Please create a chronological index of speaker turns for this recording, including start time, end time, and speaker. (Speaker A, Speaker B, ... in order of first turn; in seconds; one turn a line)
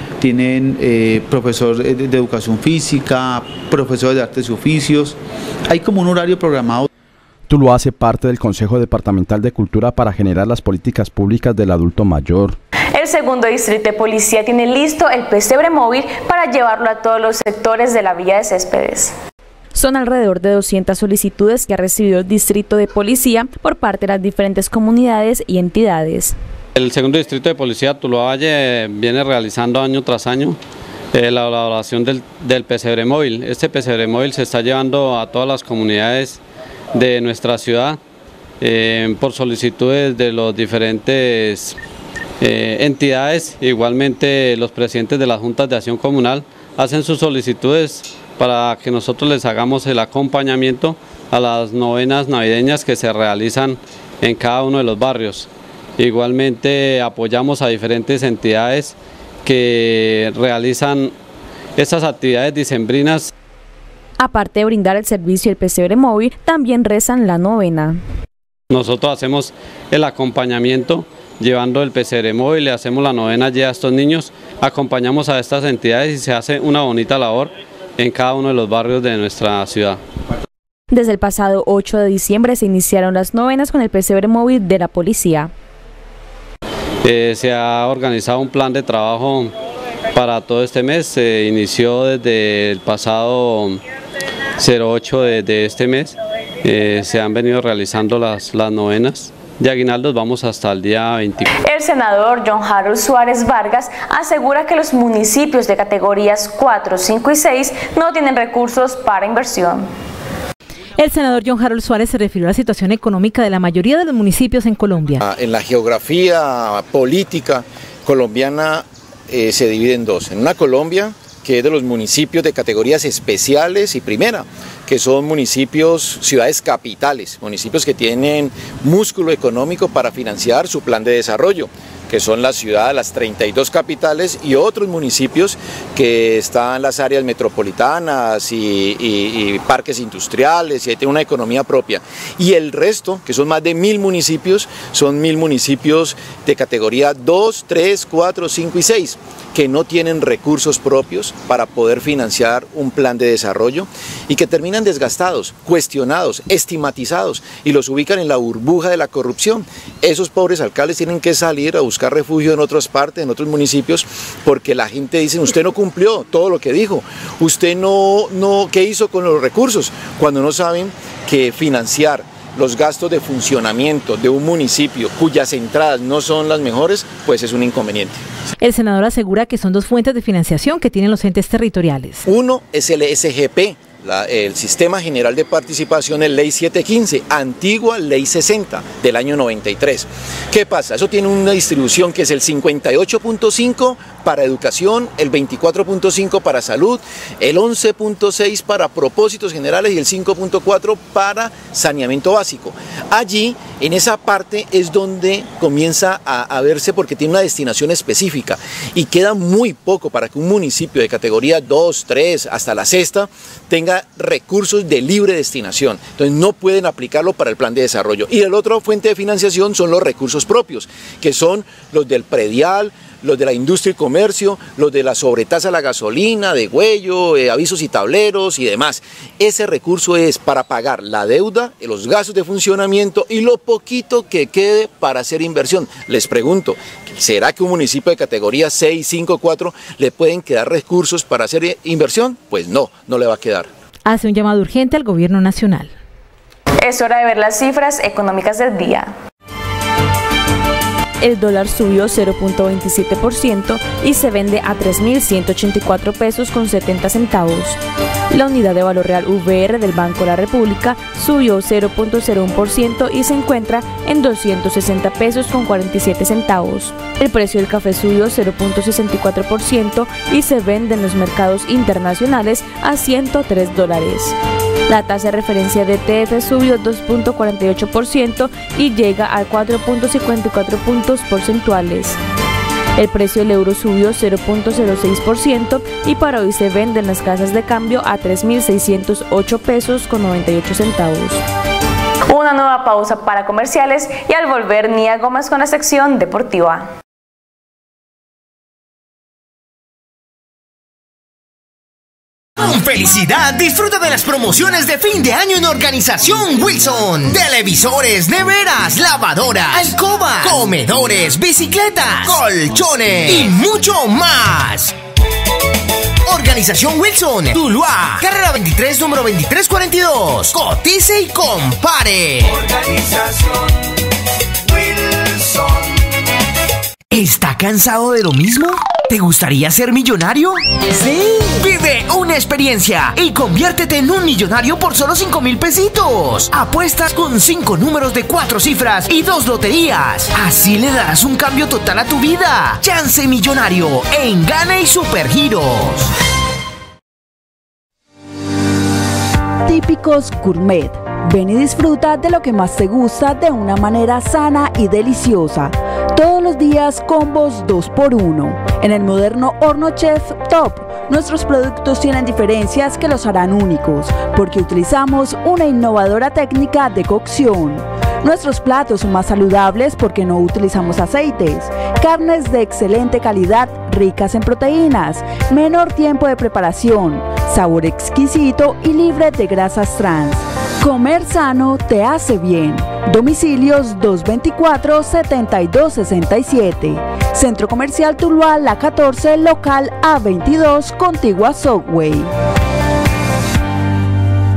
Speaker A: 0.2-6.9
Speaker B: 7.5-12.6
Speaker C: 12.9-19.1
Speaker D: 19.7-26.4
Speaker E: 26.8-30.6
Speaker E: 31.1-36.4
Speaker E: 36.9-38.0
Speaker E: 38.6-41.8
Speaker E: 42.4-61.1
Speaker E: 61.8-63.3
Speaker D: 64.2-68.0
Speaker E: 68.7-80.0
Speaker D: 80.9-85.5
Speaker E: 87.0-89.5
Speaker E: 90.1-93.8
Speaker E: 94.6-101.5
Speaker C: 101.6-109.8
Speaker F: 111.0-115.2
Speaker G: 115.2-178.2
Speaker F: 178.6-182.2
Speaker G: 182.2-243.7
Speaker F: 244.1-245.9
Speaker C: 246.8-249.1
Speaker D: 251.2-257.8
Speaker D: 258.3-274.4
Speaker D: 274.9-282.2
Speaker D: 282.9-291.4
Speaker C: 292.3-296.9
Speaker H: 302.6-314.9
Speaker H: 316.3-322.6
Speaker H: 327.1-346.1
Speaker I: 349.7-392.3